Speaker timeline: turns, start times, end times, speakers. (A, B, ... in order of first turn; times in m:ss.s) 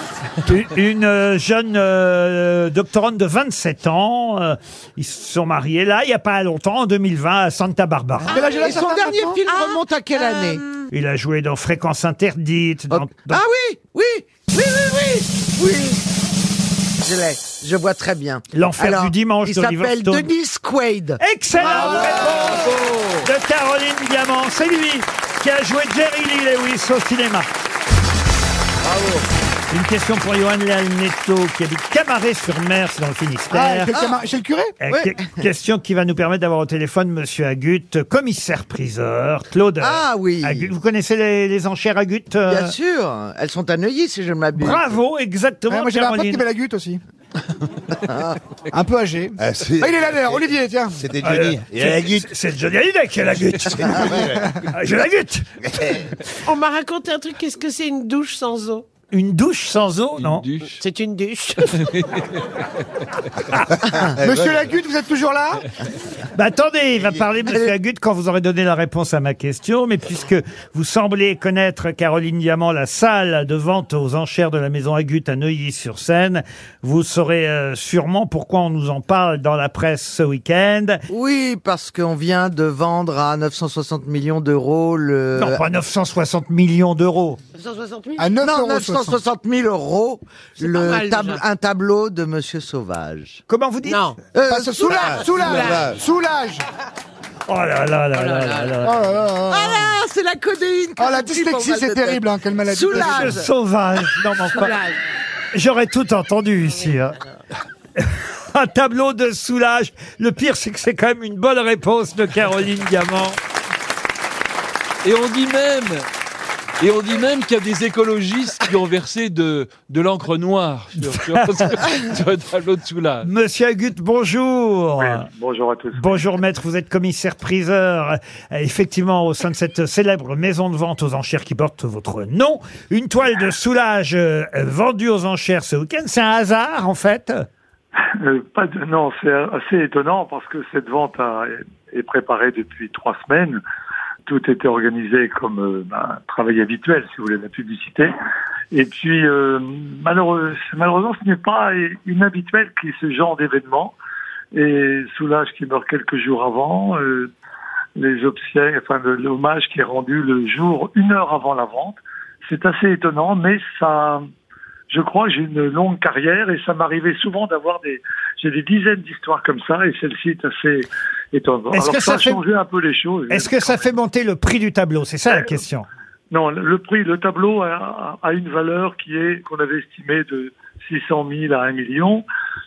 0:00.4-0:08.4 A
0:08.2-0:09.4 B
0:08.3-0:08.7 C
0:08.4-0:10.6 D
0:09.5-0:10.8 C
0:10.9-0:13.4 A
0:12.9-0:16.1 D
0:17.0-0:22.9 D
0:18.5-0:20.3 A
0:21.2-0:27.5 A
0:28.9-0:29.2 E
0:29.7-0:33.9 A
0:33.5-0:34.7 B
0:34.8-0:42.8 A
0:34.9-0:35.3 D
0:39.8-0:40.7 D
0:42.5-0:44.9 D
0:44.6-0:46.4 A
0:45.7-0:47.0 B
0:48.1-0:48.4 D
0:48.7-0:51.0 B
0:49.4-0:50.4 E
0:51.0-0:52.3 E
0:51.2-0:56.1 A
0:53.7-0:54.6 E
0:56.4-0:58.9 C
0:59.1-1:00.4 A
1:00.2-1:00.8 F
1:00.8-1:01.9 C
1:03.9-1:04.7 E
1:04.2-1:05.6 B
1:06.4-1:21.0 A
1:07.0-1:07.2 E
1:21.1-1:25.6 D
1:25.4-1:27.4 A
1:27.6-1:28.3 C
1:28.2-1:29.2 B
1:28.4-1:33.4 D
1:30.6-1:31.4 C
1:33.5-1:34.0 A
1:33.9-1:34.2 C
1:34.3-1:35.8 D
1:34.5-1:36.6 B
1:34.9-1:36.0 E
1:35.4-1:35.8 C
1:37.5-1:39.1 A
1:38.1-1:38.8 C
1:38.8-1:39.9 B
1:39.5-1:43.5 D
1:41.0-1:43.4 B
1:42.9-1:44.8 A
1:44.5-1:45.0 C
1:45.5-1:47.2 A
1:48.0-1:53.4 A
1:55.0-1:56.1 F
1:56.8-2:03.3 F
2:01.1-2:01.7 A
2:03.2-2:05.3 A
2:05.0-2:06.3 G
2:06.0-2:17.4 A
2:18.2-2:23.6 G
2:24.3-2:28.1 G
2:28.7-2:34.0 G
2:34.5-2:37.3 G
2:38.0-2:44.3 G
2:44.9-2:53.8 G
2:51.7-2:52.4 A
2:53.3-2:55.9 A
2:56.3-3:02.2 G